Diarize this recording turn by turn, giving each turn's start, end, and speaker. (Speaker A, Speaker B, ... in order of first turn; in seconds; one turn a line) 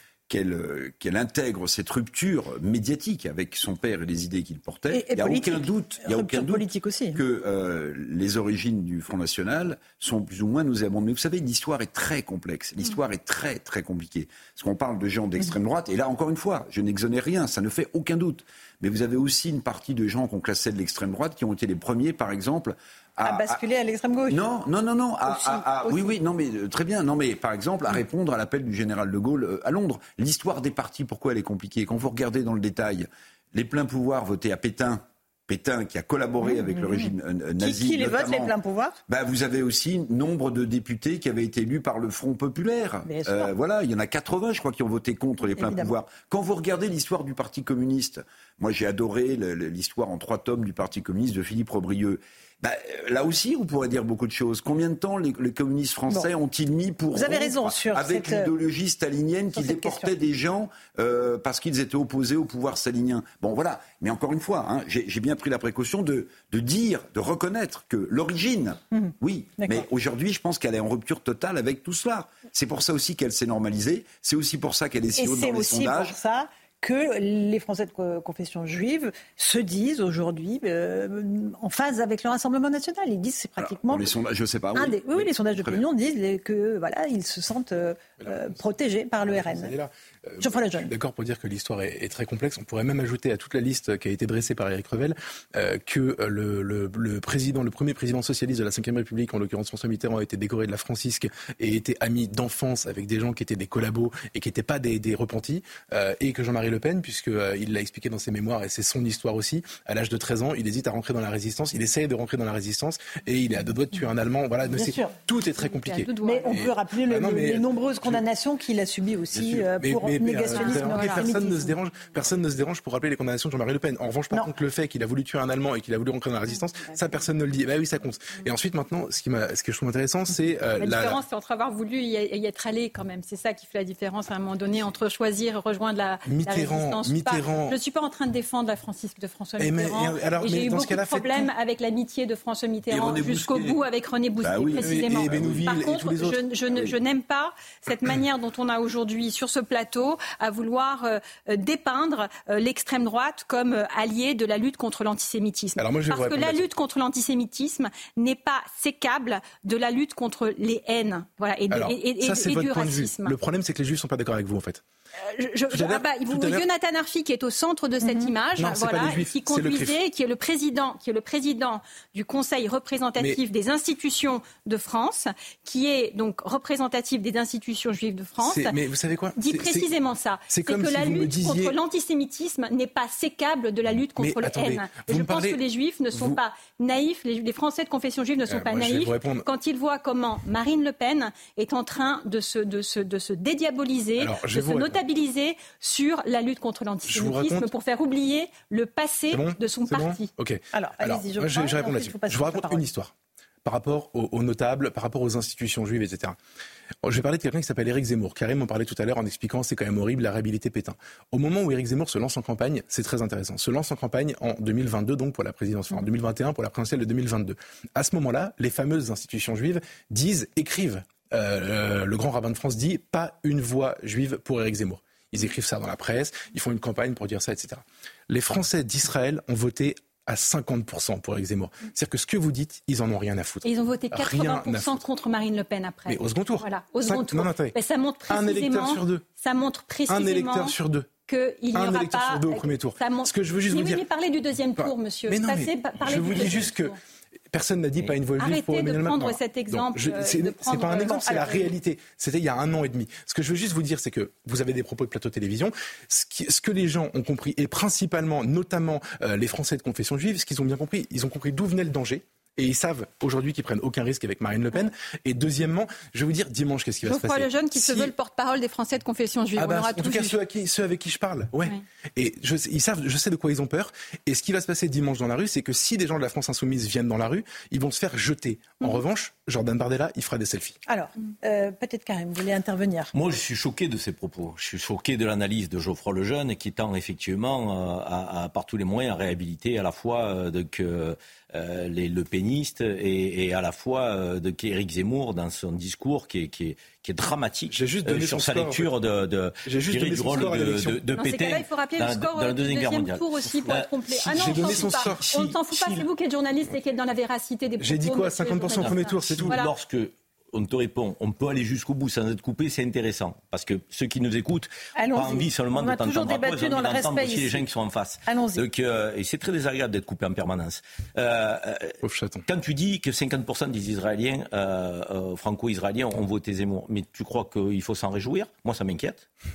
Speaker A: 0.3-23.6
Speaker B: 4.9-7.2
Speaker B: 23.2-24.4
Speaker A: 24.3-38.5
Speaker B: 25.2-26.2
Speaker B: 36.4-39.0
Speaker A: 39.1-76.1
Speaker B: 43.0-43.5
Speaker B: 45.5-45.9
Speaker B: 57.1-58.5
Speaker B: 59.5-60.1
Speaker B: 68.9-69.8
Speaker B: 75.2-84.1
Speaker A: 83.6-85.8
Speaker B: 84.7-89.7
Speaker C: 89.2-118.2
Speaker B: 90.4-90.9
Speaker B: 114.7-115.2
Speaker D: 115.6-116.6
Speaker B: 116.2-121.7
Speaker C: 119.3-131.2
Speaker D: 120.5-121.2
Speaker D: 130.8-163.3
Speaker C: 136.2-137.8
Speaker C: 139.6-141.5
Speaker A: 142.9-143.8
Speaker A: 144.4-145.7
Speaker C: 144.8-146.5
Speaker C: 155.8-156.7
Speaker C: 161.7-164.8
Speaker D: 165.2-178.8
Speaker C: 165.7-166.6
Speaker B: 168.0-168.3
Speaker C: 168.6-169.9
Speaker C: 178.4-179.9
Speaker D: 179.4-200.3
Speaker C: 180.5-181.7
Speaker C: 184.2-185.6
Speaker C: 186.1-186.4
Speaker C: 188.5-189.4
Speaker C: 194.2-195.0
Speaker C: 197.1-197.7
Speaker C: 199.3-203.1
Speaker B: 200.7-202.9
Speaker C: 203.6-206.4
Speaker C: 207.0-235.0
Speaker D: 233.6-240.8
Speaker C: 236.1-237.8
Speaker C: 238.3-239.2
Speaker C: 240.1-241.1
Speaker D: 241.3-246.9
Speaker C: 241.7-244.0
Speaker C: 244.8-246.9
Speaker C: 247.5-268.1
Speaker D: 248.3-251.6
Speaker B: 251.2-251.6
Speaker D: 267.0-270.4
Speaker C: 269.6-280.8
Speaker B: 280.9-283.1
Speaker E: 283.1-304.9
Speaker C: 297.7-298.9
Speaker C: 299.6-301.0
Speaker D: 301.1-309.7
Speaker C: 304.1-306.0
Speaker C: 307.8-309.6
Speaker E: 308.8-329.3
Speaker B: 315.0-317.7
Speaker B: 318.3-318.6
Speaker C: 322.0-322.4